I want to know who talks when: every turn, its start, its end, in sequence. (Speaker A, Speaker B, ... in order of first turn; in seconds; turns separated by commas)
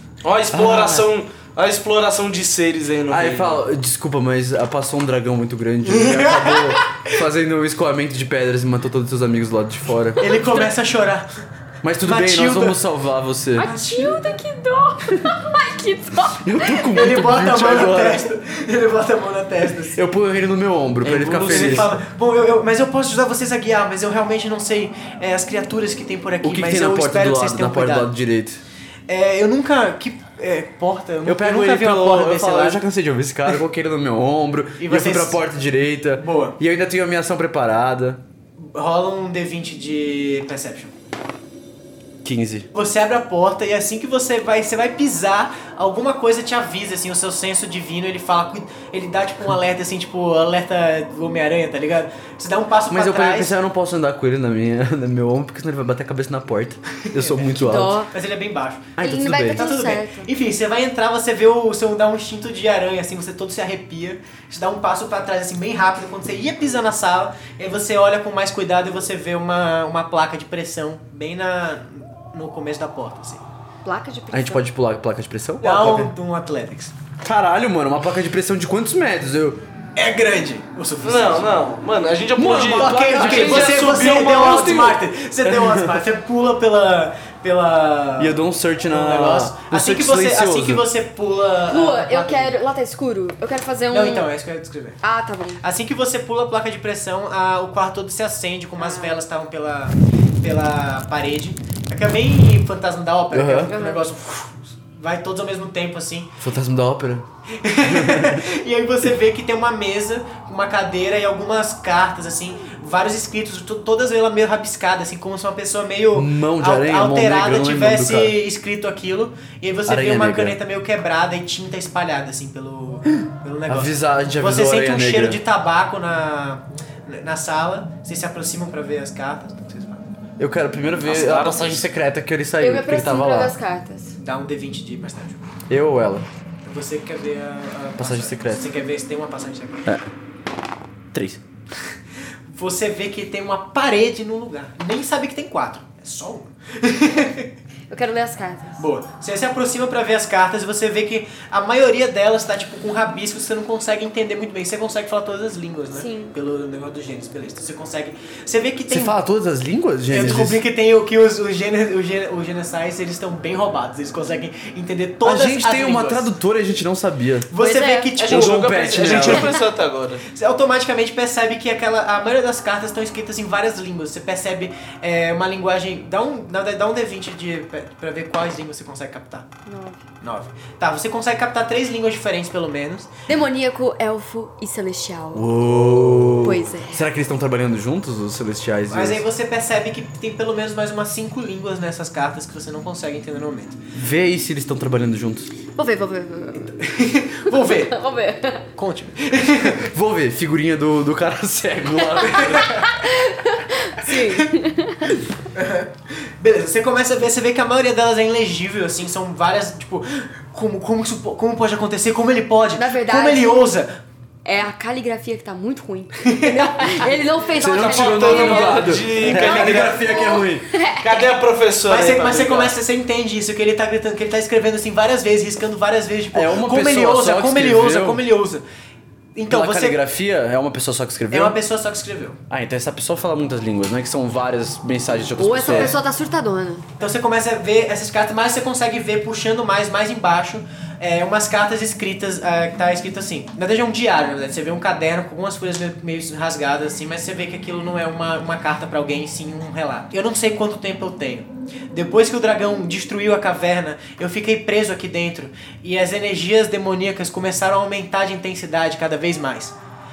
Speaker A: 0.2-3.6, Speaker B: 0.5-1.1, Speaker B: 3.1-10.2, Speaker C: 5.8-7.1, Speaker C: 10.2-11.3, Speaker D: 10.3-10.5, Speaker B: 11.8-13.7, Speaker C: 12.0-12.8, Speaker D: 13.6-16.9, Speaker C: 13.6-14.3, Speaker B: 16.4-18.2, Speaker C: 16.9-20.0, Speaker B: 19.9-21.9, Speaker C: 21.0-28.1, Speaker A: 21.2-21.9, Speaker B: 26.4-28.6, Speaker C: 29.1-32.8, Speaker B: 31.2-38.2, Speaker C: 34.8-35.4, Speaker C: 36.2-36.6, Speaker C: 38.6-40.9, Speaker B: 42.2-42.7, Speaker C: 42.7-53.5, Speaker B: 52.9-58.0, Speaker C: 57.0-58.9, Speaker D: 57.5-58.1, Speaker B: 59.0-59.7, Speaker D: 59.0-60.3, Speaker C: 59.5-73.4, Speaker D: 73.8-74.6, Speaker B: 74.3-76.1, Speaker C: 75.6-76.9, Speaker B: 77.2-79.6, Speaker C: 80.0-81.5, Speaker A: 81.0-84.9, Speaker B: 82.3-86.0, Speaker C: 82.7-92.5, Speaker B: 88.2-90.8, Speaker D: 91.7-94.3, Speaker C: 93.9-95.0, Speaker D: 95.0-95.6, Speaker C: 95.6-106.4, Speaker D: 98.8-99.2, Speaker B: 103.3-103.7, Speaker D: 103.7-104.0, Speaker B: 106.4-107.3, Speaker C: 107.5-130.0, Speaker B: 107.8-108.5, Speaker B: 116.1-118.3, Speaker B: 119.9-120.6, Speaker B: 123.7-125.4, Speaker B: 130.4-133.5, Speaker A: 131.1-131.8, Speaker D: 132.6-134.1, Speaker C: 134.2-135.4, Speaker B: 135.7-136.3, Speaker C: 136.6-139.9, Speaker B: 138.0-138.6, Speaker B: 141.1-141.4, Speaker C: 142.5-147.5, Speaker D: 147.9-148.8, Speaker C: 148.8-159.1, Speaker D: 155.9-156.3, Speaker B: 158.9-160.6, Speaker C: 160.1-166.3, Speaker B: 165.2-167.5, Speaker C: 167.5-169.4, Speaker D: 167.6-168.2, Speaker A: 168.2-170.2, Speaker B: 168.2-169.5, Speaker D: 169.2-169.6, Speaker C: 170.3-179.5, Speaker D: 179.7-180.0, Speaker C: 180.2-183.1, Speaker D: 183.3-185.5, Speaker B: 185.3-189.2, Speaker D: 186.4-187.0, Speaker C: 188.9-193.8, Speaker B: 193.9-195.5, Speaker D: 195.8-196.8, Speaker C: 196.7-197.9, Speaker D: 197.5-198.7, Speaker C: 198.8-199.8, Speaker B: 199.6-202.8, Speaker D: 202.1-205.2, Speaker C: 202.2-202.9, Speaker C: 204.0-204.4, Speaker C: 205.5-213.9, Speaker D: 212.8-213.7, Speaker D: 214.4-221.3, Speaker C: 216.2-217.1, Speaker B: 217.5-220.7, Speaker A: 217.6-220.2, Speaker A: 221.0-222.8, Speaker C: 221.9-228.6, Speaker B: 226.3-228.2, Speaker C: 229.3-230.0, Speaker B: 229.5-231.6, Speaker C: 231.3-232.4, Speaker B: 232.5-236.0, Speaker D: 235.4-236.8, Speaker C: 237.0-259.7